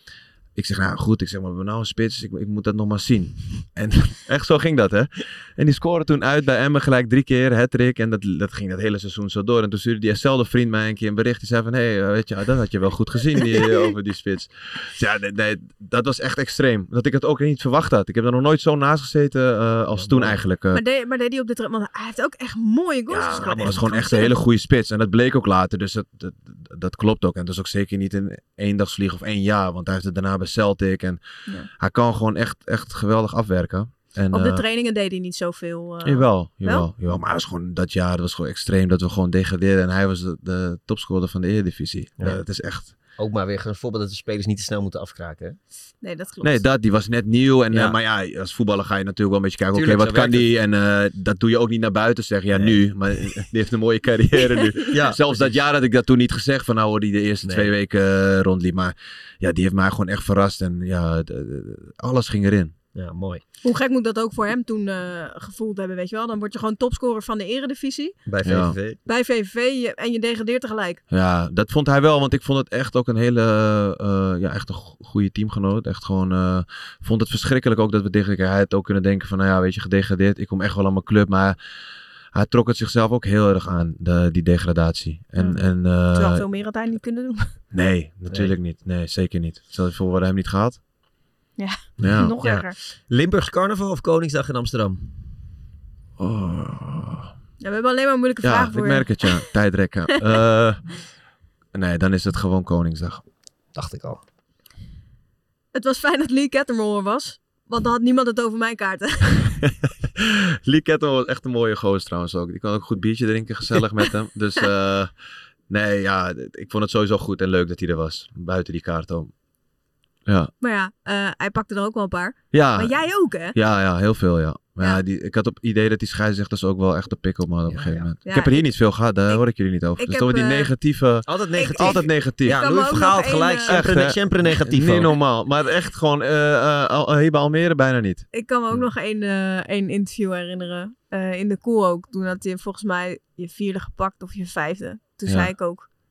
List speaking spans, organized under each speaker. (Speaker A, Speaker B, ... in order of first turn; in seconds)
Speaker A: 0.6-20.8, 23.1-31.2, 31.8-34.6, 36.0-42.9, 46.4-62.7, 68.4-68.8, 71.1-81.6, 82.3-86.4, 87.7-90.8, 92.0-92.4, 96.2-97.3, 98.4-100.8, 101.7-103.2, 109.6-115.1, 115.7-119.3, 120.3-120.5, 122.5-122.9, 123.5-132.7, 133.6-138.3
Speaker B: 19.9-20.4, 23.4-23.8, 43.2-45.6, 47.7-48.0, 49.7-50.5, 54.9-55.4, 57.4-57.7, 62.9-63.4, 68.3-69.0, 92.0-95.2, 103.7-104.2, 127.7-128.1, 131.3-135.1
Speaker C: 20.7-24.3, 34.3-36.9, 46.0-46.6, 63.6-68.2, 69.0-71.0, 85.4-87.5, 91.6-92.7, 97.6-99.5, 105.7-109.5, 120.6-123.5, 128.3-128.6, 130.0-130.7, 131.6-133.8, 138.3-145.9